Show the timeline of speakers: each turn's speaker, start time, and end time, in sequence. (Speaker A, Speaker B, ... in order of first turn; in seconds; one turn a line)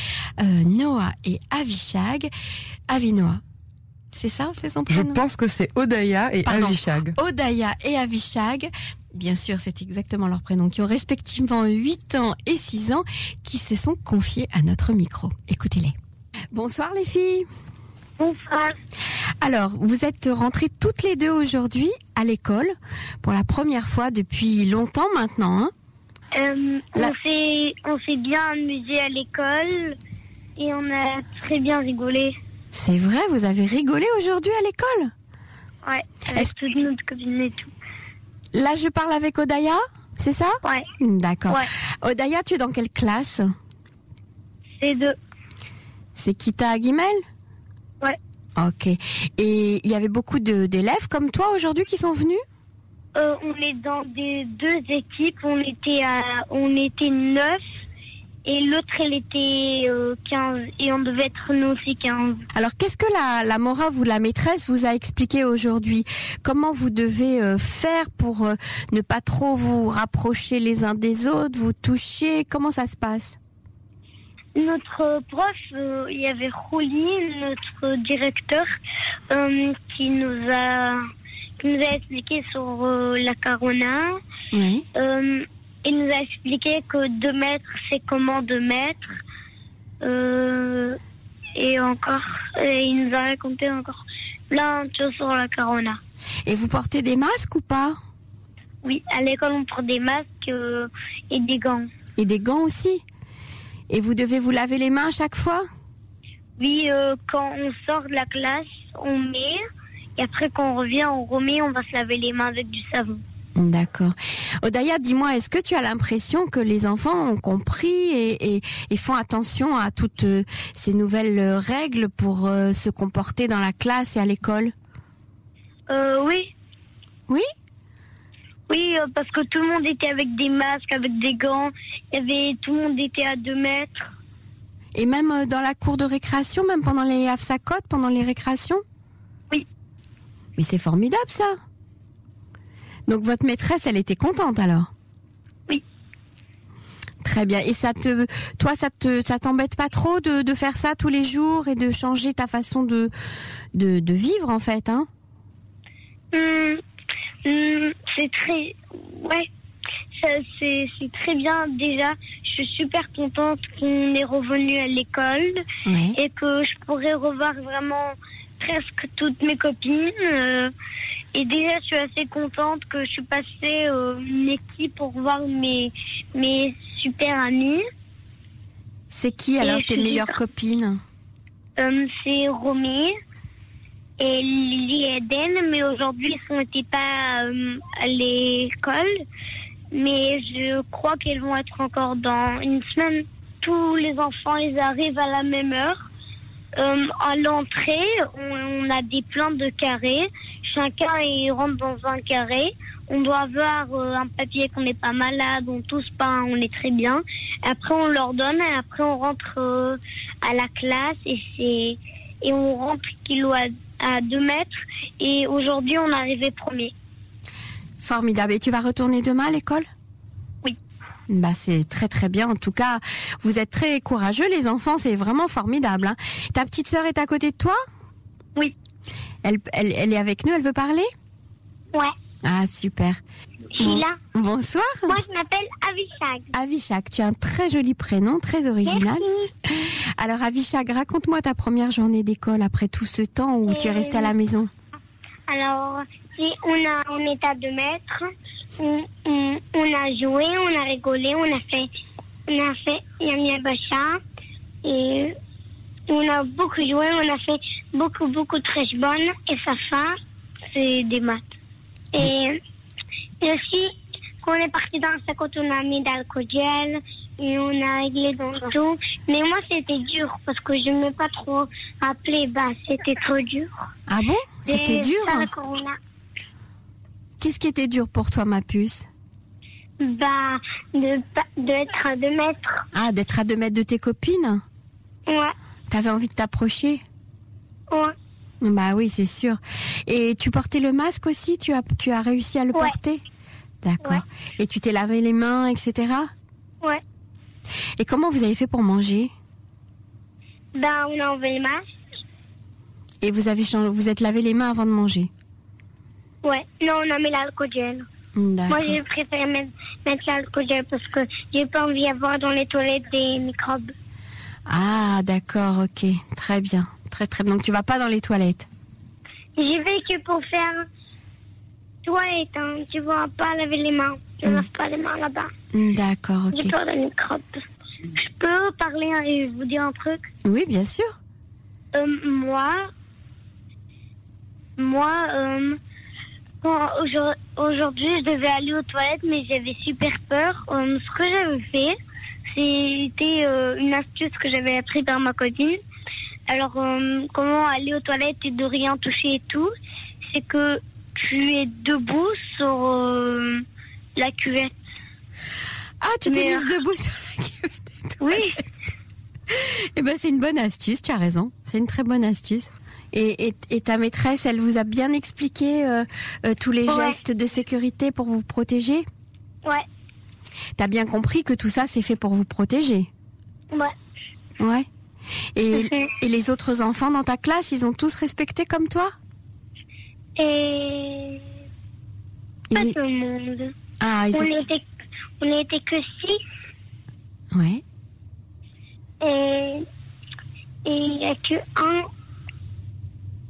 Speaker A: 0.4-2.3
Speaker A: 2.9-3.4
Speaker A: 4.1-5.2
Speaker B: 4.9-7.2
Speaker A: 6.4-15.9
Speaker A: 16.5-17.4
Speaker C: 18.2-18.7
Speaker A: 19.4-25.7
Speaker C: 26.3-29.9
Speaker C: 30.6-32.3
Speaker A: 32.7-35.1
Speaker C: 35.8-37.7
Speaker A: 38.5-43.4
Speaker C: 44.8-45.1
Speaker A: 46.1-47.2
Speaker A: 48.6-52.4
Speaker C: 53.1-57.6
Speaker C: 58.4-62.4
Speaker A: 62.5-73.4
Speaker C: 74.6-78.7
Speaker C: 79.3-81.0
Speaker C: 81.6-84.2
Speaker A: 84.5-84.8
Speaker C: 84.9-89.1
Speaker C: 90.0-91.0
Speaker C: 91.5-96.0
Speaker A: 96.5-98.0
Speaker C: 98.8-101.9
Speaker A: 102.2-103.0
Speaker A: 103.9-105.6
Speaker C: 106.6-109.6
Speaker C: 110.2-113.2
Speaker A: 113.5-124.7
Speaker C: 125.9-126.5
Speaker C: 128.7-134.1
Speaker A: 134.9-138.8
Speaker A: 140.6-141.5
Speaker A: 143.1-144.9
Speaker A: 147.2-153.1
Speaker A: 153.7-155.1
Speaker C: 156.3-156.8
Speaker C: 157.4-159.5
Speaker C: 160.2-165.6
Speaker A: 165.8-166.2
Speaker C: 166.2-170.7
Speaker C: 171.3-177.8
Speaker A: 179.1-181.0
Speaker C: 179.6-180.3
Speaker C: 181.8-183.1
Speaker C: 184.2-189.1
Speaker C: 189.9-196.1
Speaker C: 196.8-216.9
Speaker A: 218.0-219.8
Speaker A: 221.3-227.8
Speaker A: 229.4-231.1
Speaker A: 232.4-233.2
Speaker C: 233.8-234.2
Speaker A: 233.8-235.2
Speaker C: 235.1-236.5
Speaker A: 236.5-244.7
Speaker C: 238.8-239.5
Speaker C: 243.7-244.3
Speaker C: 245.5-248.2
Speaker C: 248.8-251.9
Speaker C: 252.5-254.2
Speaker C: 254.8-255.3
Speaker C: 256.1-260.1
Speaker C: 260.7-261.5
Speaker C: 262.1-262.6
Speaker C: 263.4-273.7
Speaker A: 274.1-275.5
Speaker C: 274.7-275.9
Speaker A: 277.4-279.1
Speaker C: 280.0-282.8
Speaker A: 282.9-284.6
Speaker C: 285.3-285.5
Speaker A: 285.9-287.0
Speaker A: 288.6-293.2
Speaker A: 293.8-296.3
Speaker A: 298.0-299.3
Speaker C: 300.8-301.8
Speaker A: 303.2-305.3
Speaker C: 306.4-308.1
Speaker A: 308.4-309.0
Speaker C: 308.7-313.9
Speaker A: 314.7-318.7
Speaker C: 319.6-320.8
Speaker C: 322.0-325.5
Speaker A: 325.7-326.7
Speaker C: 326.5-327.5
Speaker C: 328.1-330.2
Speaker A: 330.4-331.1
Speaker C: 331.9-332.8
Speaker C: 334.8-335.8
Speaker C: 336.6-341.9
Speaker C: 342.5-345.8
Speaker C: 346.5-349.7
Speaker C: 350.3-353.6
Speaker C: 354.1-354.7
Speaker A: 356.0-358.4
Speaker C: 356.2-356.7
Speaker C: 358.2-358.6
Speaker A: 359.5-369.0
Speaker C: 366.9-367.2
Speaker A: 370.8-373.1
Speaker A: 374.6-374.9
Speaker A: 375.6-379.1
Speaker C: 375.8-376.1
Speaker C: 380.4-381.4
Speaker A: 382.7-382.9
Speaker C: 382.7-383.7
Speaker A: 384.0-384.5
Speaker C: 384.3-384.8
Speaker C: 385.4-386.4
Speaker A: 387.5-387.8
Speaker C: 389.2-389.8
Speaker C: 390.9-392.0